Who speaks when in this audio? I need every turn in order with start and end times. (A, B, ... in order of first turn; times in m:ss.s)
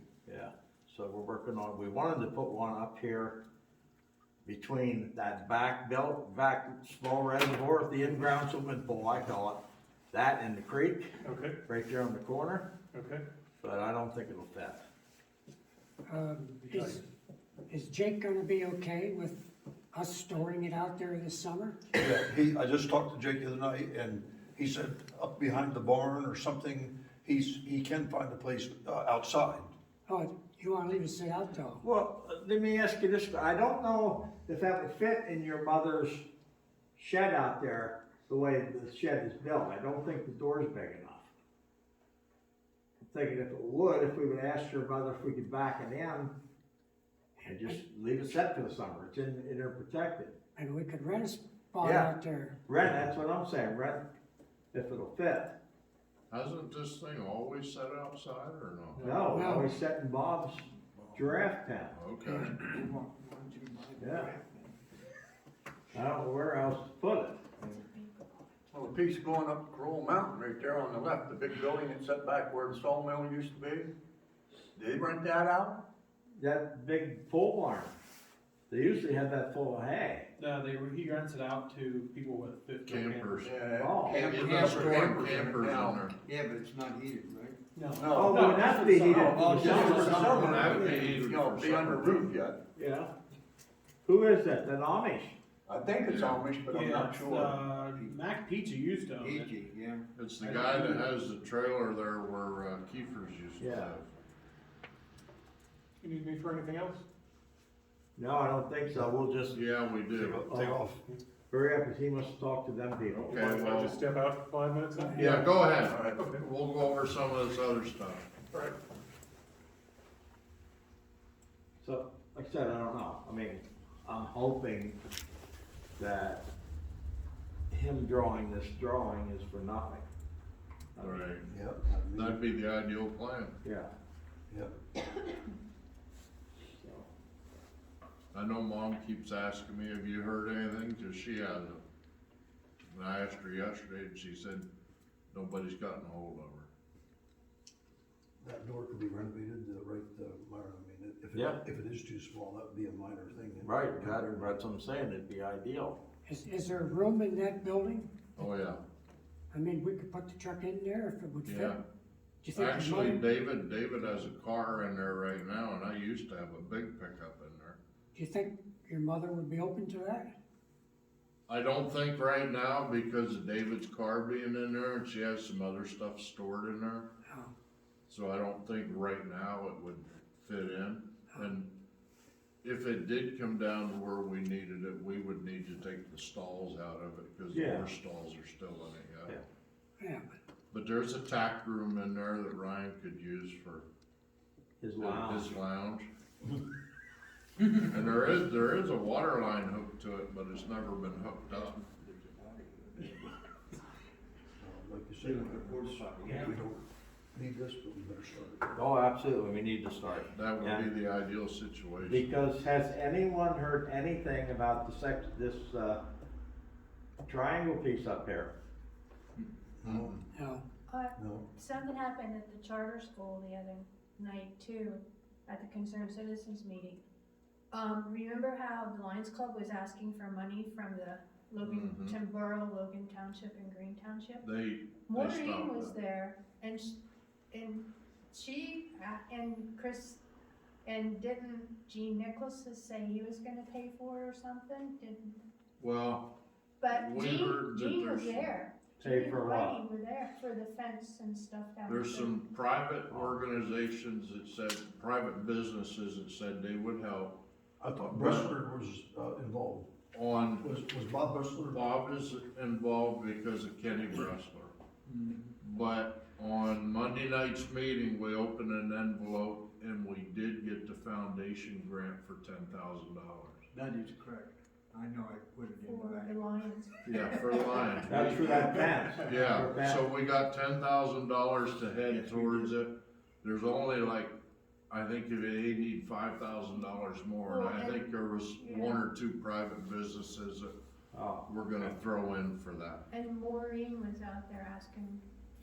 0:00.3-0:03.4 A
0:04.4-0:12.7 A
0:11.2-0:11.6 B
0:12.9-0:13.2 B
0:13.6-0:14.8 A
0:16.1-0:17.0 C
0:17.7-0:21.8 C
0:21.9-0:29.7 D
0:30.1-0:31.8 C
0:31.8-0:36.3 A
0:37.0-0:41.3 A
0:43.0-0:46.4 A
0:47.4-0:50.4 A
0:50.6-0:52.6 C
0:51.8-0:52.1 A
0:52.7-0:54.1 A
0:54.7-0:55.6 A
0:56.3-0:59.2 E
0:59.0-1:02.0 A
0:59.2-0:59.7 C
1:01.9-1:02.5 E
1:02.2-1:02.6 C
1:02.5-1:04.7 F
1:04.0-1:04.3 A
1:05.9-1:07.4 A
1:07.6-1:08.5 G
1:08.7-1:13.9 H
1:14.8-1:15.8 H
1:16.4-1:17.9 A
1:18.7-1:20.3 A
1:20.4-1:23.4 I
1:22.8-1:23.5 E
1:23.4-1:26.0 H
1:23.6-1:24.3 A
1:24.1-1:26.2 E
1:24.4-1:27.6 F
1:24.7-1:25.0 C
1:27.8-1:30.3 I
1:27.9-1:32.6 H
1:28.1-1:31.1 A
1:29.3-1:30.8 F
1:29.8-1:32.3 E
1:32.8-1:33.1 A
1:34.0-1:35.4 A
1:35.7-1:38.0 H
1:36.0-1:36.4 E
1:36.7-1:39.6 I
1:39.2-1:41.0 F
1:40.2-1:44.1 E
1:43.6-1:44.0 A
1:46.0-1:47.0 B
1:48.2-1:49.6 A
1:49.5-1:50.4 E
1:50.1-1:51.0 D
1:50.3-1:50.8 A
1:51.5-1:53.6 A
1:53.1-1:54.0 E
1:53.3-1:55.2 B
1:55.0-1:55.5 C
1:55.2-1:56.2 H
1:55.2-1:58.3 E
1:56.2-1:56.4 B
2:01.8-2:05.0 A
2:06.0-2:06.5 A
2:07.7-2:10.1 A
2:11.0-2:11.4 A
2:11.0-2:11.5 E
2:11.5-2:12.4 D
2:12.2-2:13.6 E
2:13.6-2:13.9 A
2:16.8-2:17.1 A
2:18.3-2:21.8 E
2:22.9-2:24.7 E
2:25.3-2:26.7 E
2:28.4-2:34.5 D
2:31.3-2:31.6 A
2:33.6-2:36.0 A
2:36.3-2:38.1 C
2:38.4-2:38.8 E
2:39.5-2:41.8 C
2:41.4-2:41.8 E
2:42.4-2:43.2 C
2:42.5-2:47.8 E
2:48.2-2:50.3 C
2:51.5-2:57.1 E
2:57.3-2:57.5 C
2:58.1-3:01.7 E
3:02.6-3:09.3 E
3:07.5-3:07.9 A
3:10.0-3:10.2 C
3:10.7-3:13.9 E
3:14.8-3:15.5 A
3:15.0-3:16.1 E
3:17.6-3:21.8 E
3:21.4-3:23.3 F
3:24.6-3:26.8 D
3:25.2-3:26.6 F
3:27.3-3:28.8 D
3:28.8-3:30.9 A
3:30.3-3:32.3 E
3:32.1-3:36.0 A
3:37.3-3:38.6 A
3:39.8-3:40.2 D
3:39.9-3:40.2 E
3:40.3-3:40.6 C
3:40.9-3:47.0 G
3:41.2-3:41.5 D
3:47.7-3:54.5 G
3:51.6-3:52.2 E
3:54.4-3:56.0 E
3:55.1-3:57.0 G
3:57.5-4:00.2 G
4:00.8-4:05.4 G
4:05.8-4:06.3 E
4:06.8-4:12.4 G
4:06.9-4:08.5 E
4:09.0-4:09.8 A
4:11.9-4:17.4 E
4:17.8-4:19.9 D
4:18.1-4:18.5 E
4:20.1-4:20.7 E
4:20.6-4:21.8 D
4:21.7-4:24.8 E
4:25.1-4:25.5 F
4:25.6-4:33.6 E
4:33.7-4:36.5 F
4:35.8-4:37.4 G
4:37.1-4:38.6 E
4:38.0-4:40.0 A
4:39.2-4:44.4 E
4:44.9-4:50.7 E
4:47.5-4:49.0 G
4:51.1-4:51.8 A
4:51.5-4:53.0 E
4:53.1-4:55.2 G